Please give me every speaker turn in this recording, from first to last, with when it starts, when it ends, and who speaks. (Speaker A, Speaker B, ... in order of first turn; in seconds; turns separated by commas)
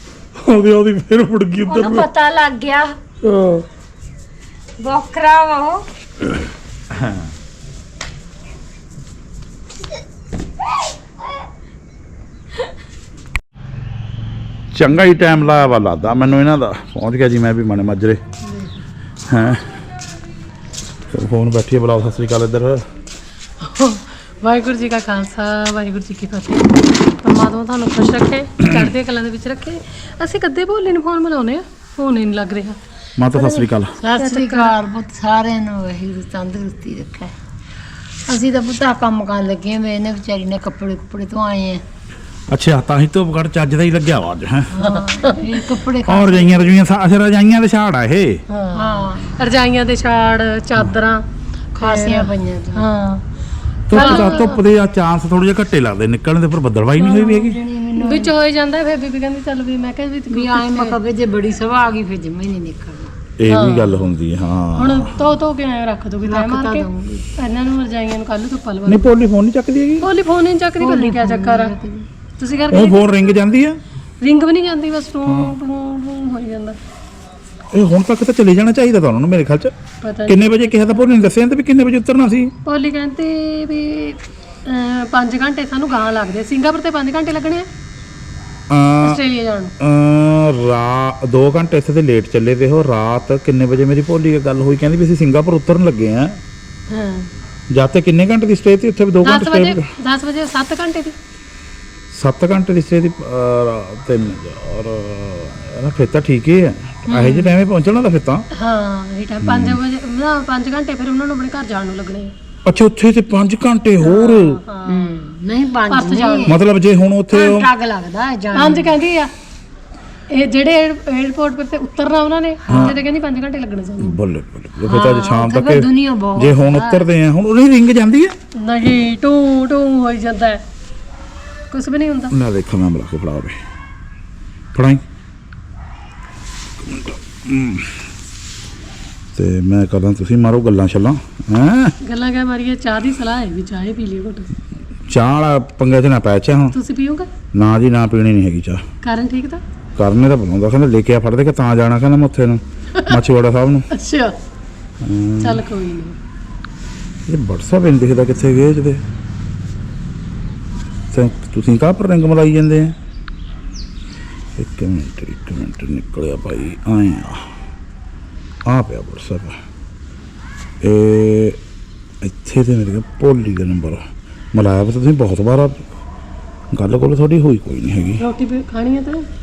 Speaker A: 0.4-2.0, Speaker B: 1.6-2.9, Speaker A: 3.2-3.6, Speaker B: 4.8-5.8, Speaker C: 7.0-7.2, Speaker C: 14.7-18.2, Speaker D: 18.4-18.8, Speaker C: 19.3-19.6, Speaker C: 21.1-22.8, Speaker D: 23.6-32.8, Speaker C: 33.2-33.9, Speaker D: 33.3-34.7, Speaker E: 34.0-37.3, Speaker E: 38.3-41.8, Speaker C: 42.5-44.7, Speaker E: 44.7-46.8, Speaker D: 44.8-45.4, Speaker C: 46.0-48.4, Speaker D: 48.5-51.2, Speaker E: 48.7-49.4, Speaker D: 51.7-53.2, Speaker E: 51.8-52.9, Speaker C: 53.9-57.6, Speaker D: 53.9-54.6, Speaker E: 53.9-54.4, Speaker E: 57.0-58.3, Speaker D: 58.0-61.0, Speaker E: 60.3-63.1, Speaker C: 63.4-65.1, Speaker D: 63.5-63.9, Speaker D: 64.8-69.2, Speaker E: 66.2-67.2, Speaker C: 68.8-70.1, Speaker D: 70.0-71.7, Speaker E: 70.8-72.1, Speaker D: 72.4-73.2, Speaker C: 72.7-73.8, Speaker D: 74.2-76.8, Speaker C: 75.3-75.5, Speaker C: 77.7-79.7, Speaker D: 80.0-80.6, Speaker C: 80.3-82.5, Speaker D: 82.7-87.7, Speaker C: 88.7-89.2, Speaker D: 89.0-89.7, Speaker C: 89.8-96.4, Speaker D: 96.9-97.3, Speaker C: 97.7-99.8, Speaker D: 99.2-101.1, Speaker C: 102.1-108.5, Speaker E: 107.2-107.5, Speaker D: 108.5-112.3, Speaker C: 109.4-109.8, Speaker C: 112.7-114.6, Speaker D: 114.0-115.0, Speaker E: 114.8-116.6, Speaker D: 115.9-116.5, Speaker C: 116.5-117.7, Speaker E: 117.3-119.0, Speaker D: 118.5-119.3, Speaker D: 120.3-124.2, Speaker E: 122.7-123.0, Speaker C: 122.7-123.0, Speaker C: 124.0-128.3, Speaker E: 124.8-127.1, Speaker D: 128.6-130.6, Speaker D: 131.7-132.3, Speaker C: 132.3-133.5, Speaker C: 134.7-135.0, Speaker C: 136.8-137.9, Speaker C: 139.3-141.9, Speaker D: 142.0-144.5, Speaker C: 145.1-146.7, Speaker D: 146.7-147.3, Speaker C: 147.5-148.8, Speaker D: 149.0-149.6, Speaker C: 150.0-153.8, Speaker D: 153.9-154.3, Speaker C: 155.0-155.6, Speaker D: 155.4-156.1, Speaker C: 157.3-159.0, Speaker C: 161.1-162.9, Speaker C: 164.6-167.4, Speaker C: 168.7-169.6, Speaker C: 170.8-171.6, Speaker C: 172.2-174.0, Speaker C: 174.5-175.8, Speaker C: 176.7-178.2, Speaker D: 178.2-179.2